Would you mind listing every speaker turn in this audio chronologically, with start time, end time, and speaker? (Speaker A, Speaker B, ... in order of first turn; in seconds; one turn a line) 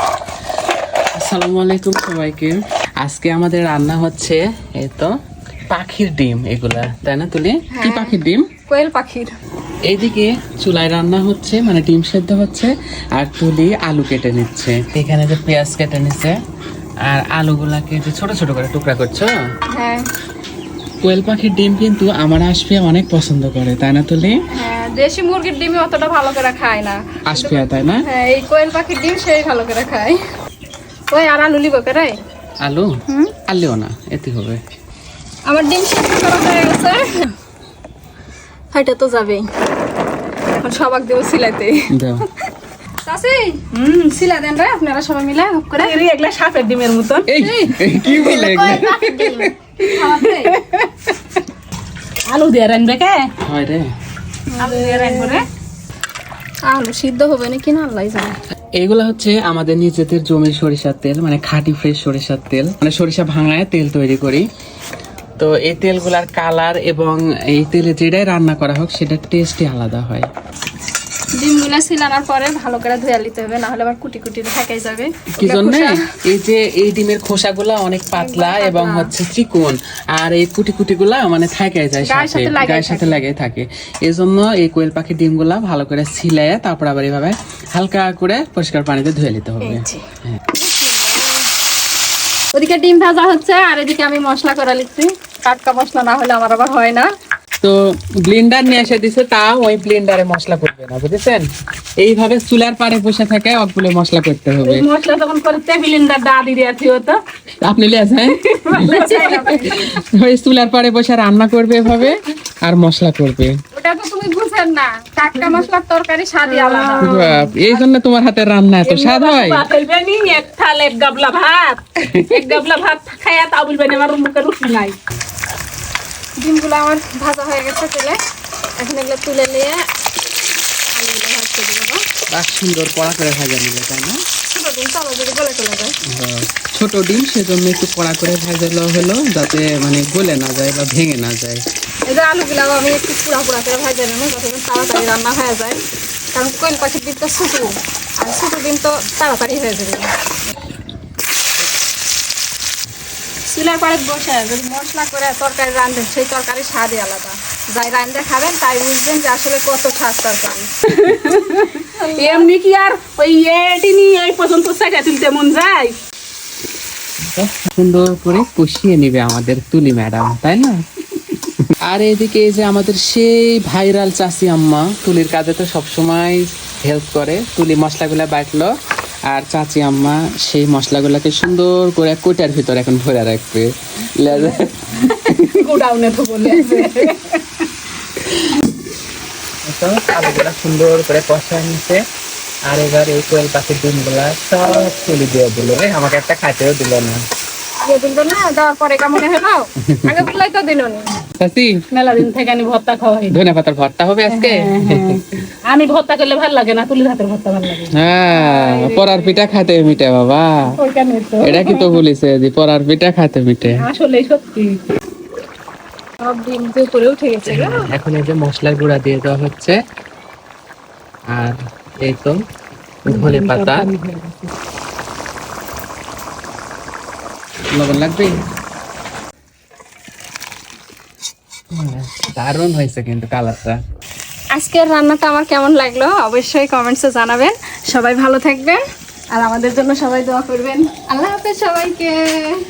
Speaker A: 1.2-5.1
Speaker A: 5.7-8.4
Speaker B: 7.7-8.2
Speaker B: 8.7-9.3
Speaker A: 9.9-16.4
Speaker A: 17.1-19.3
Speaker B: 19.7-20.0
Speaker A: 21.0-24.4
Speaker B: 24.5-30.2
Speaker A: 27.3-28.0
Speaker B: 31.1-32.1
Speaker A: 32.6-32.9
Speaker B: 33.1-33.3
Speaker A: 33.5-34.6
Speaker B: 35.5-37.3
Speaker B: 38.7-39.5
Speaker B: 40.6-41.9
Speaker A: 41.9-42.2
Speaker B: 43.0-45.9
Speaker C: 43.8-44.1
Speaker C: 45.8-47.3
Speaker A: 47.3-49.5
Speaker B: 47.4-50.6
Speaker C: 48.1-48.8
Speaker C: 49.8-51.2
Speaker C: 52.3-53.3
Speaker A: 53.4-53.9
Speaker B: 54.5-55.4
Speaker C: 54.6-55.5
Speaker B: 56.7-58.4
Speaker A: 58.8-64.5
Speaker A: 65.4-70.3
Speaker B: 71.4-76.1
Speaker A: 75.4-89.8
Speaker B: 78.2-79.1
Speaker B: 82.0-83.2
Speaker B: 89.6-91.5
Speaker B: 92.5-97.1
Speaker A: 97.6-101.5
Speaker A: 102.0-104.9
Speaker C: 104.6-107.2
Speaker A: 107.6-113.6
Speaker C: 108.3-109.5
Speaker B: 108.7-109.8
Speaker B: 113.7-117.9
Speaker C: 116.5-117.4
Speaker A: 117.0-119.7
Speaker C: 118.8-125.0
Speaker A: 122.0-122.6
Speaker B: 126.4-128.2
Speaker B: 128.8-129.8
Speaker B: 130.9-132.0
Speaker A: 132.3-134.2
Speaker B: 134.5-136.0
Speaker A: 136.1-141.6
Speaker B: 142.1-145.8
Speaker B: 146.3-150.1
Speaker B: 153.5-160.7
Speaker C: 160.9-166.0
Speaker B: 161.9-162.5
Speaker A: 167.2-170.8
Speaker A: 171.9-178.7
Speaker A: 179.3-185.6
Speaker C: 184.3-187.7
Speaker A: 186.6-186.9
Speaker A: 189.7-192.0
Speaker A: 192.7-197.2
Speaker B: 197.8-201.1
Speaker A: 199.9-200.2
Speaker A: 201.4-201.8
Speaker C: 201.9-203.4
Speaker A: 203.3-205.3
Speaker C: 204.3-209.4
Speaker A: 207.9-210.7
Speaker C: 210.8-211.9
Speaker A: 211.4-213.9
Speaker C: 213.8-214.7
Speaker B: 216.2-217.9
Speaker A: 217.5-219.8
Speaker A: 221.3-222.4
Speaker A: 223.1-223.9
Speaker C: 223.1-224.5
Speaker A: 227.7-228.3
Speaker A: 231.7-233.8
Speaker B: 234.5-242.6